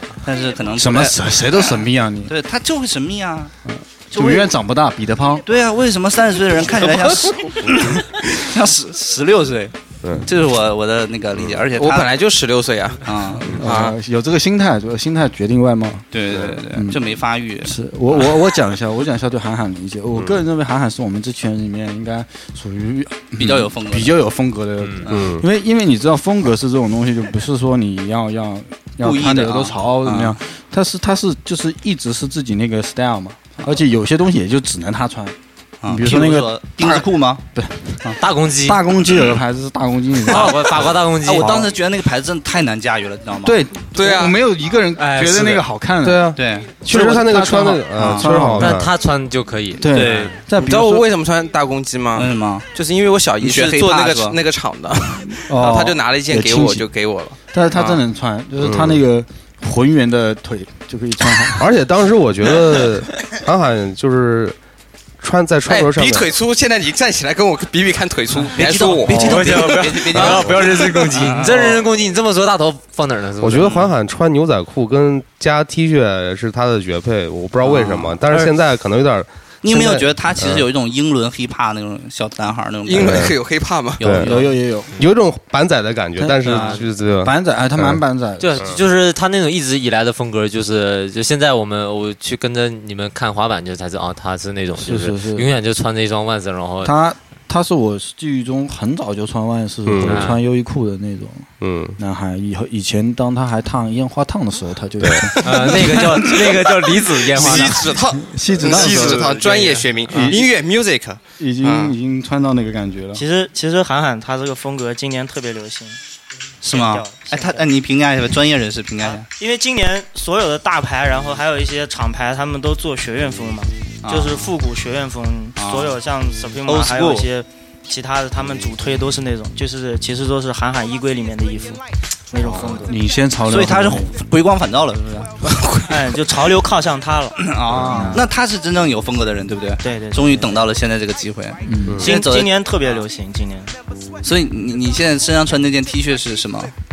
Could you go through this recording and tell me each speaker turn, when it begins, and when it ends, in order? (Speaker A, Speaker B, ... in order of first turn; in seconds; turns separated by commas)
Speaker A: 0.2-3.5, Speaker B: 0.8-2.3, Speaker B: 3.7-5.5, Speaker A: 4.1-4.5, Speaker A: 5.5-9.7, Speaker A: 10.2-12.1, Speaker C: 11.4-11.6, Speaker D: 11.8-13.9, Speaker A: 13.1-13.6, Speaker B: 13.5-16.1, Speaker A: 16.1-17.8, Speaker C: 16.3-16.6, Speaker B: 16.7-17.0, Speaker B: 17.6-35.4, Speaker A: 23.4-24.1, Speaker C: 25.1-25.5, Speaker A: 29.0-30.4, Speaker A: 35.8-37.4, Speaker B: 35.9-38.0, Speaker E: 38.2-38.8, Speaker B: 38.6-40.8, Speaker E: 40.3-41.6, Speaker A: 40.3-43.6, Speaker B: 41.4-41.7, Speaker B: 43.4-48.8, Speaker D: 44.0-44.4, Speaker E: 45.0-45.6, Speaker C: 46.0-48.9, Speaker A: 46.4-46.7, Speaker A: 48.0-48.3, Speaker E: 48.6-50.4, Speaker B: 49.8-51.0, Speaker A: 49.9-50.3, Speaker D: 50.5-58.0, Speaker A: 52.2-52.7, Speaker A: 53.4-54.4, Speaker B: 55.4-56.9, Speaker B: 57.5-61.7, Speaker C: 58.6-59.0, Speaker C: 61.6-64.6, Speaker C: 65.2-66.3, Speaker D: 65.7-69.5, Speaker A: 68.5-71.8, Speaker E: 69.1-73.7, Speaker C: 73.4-80.7, Speaker A: 77.7-78.2, Speaker A: 79.6-83.3, Speaker D: 82.9-84.1, Speaker C: 83.0-83.4, Speaker A: 84.0-84.5, Speaker C: 84.0-84.4, Speaker B: 84.2-84.9, Speaker C: 85.0-88.0, Speaker B: 86.2-88.6, Speaker A: 86.5-86.8, Speaker E: 88.4-96.9, Speaker B: 94.8-95.5, Speaker B: 96.8-106.5, Speaker C: 99.9-100.3, Speaker E: 100.0-100.4, Speaker C: 101.6-102.0, Speaker C: 105.0-105.4, Speaker E: 105.4-107.9, Speaker D: 107.3-112.0, Speaker B: 107.4-109.5, Speaker E: 109.1-110.3, Speaker B: 110.1-110.5, Speaker B: 111.4-113.2, Speaker F: 113.2-116.0, Speaker A: 116.6-119.3, Speaker F: 116.7-117.7, Speaker F: 119.0-133.0, Speaker A: 124.0-124.5, Speaker A: 125.6-126.0, Speaker A: 126.7-127.3, Speaker B: 132.4-134.1, Speaker A: 133.5-135.3, Speaker F: 135.9-138.2, Speaker A: 137.4-142.5, Speaker B: 137.7-138.2, Speaker F: 139.8-140.6, Speaker B: 141.7-142.0, Speaker F: 142.0-143.7, Speaker A: 144.2-146.7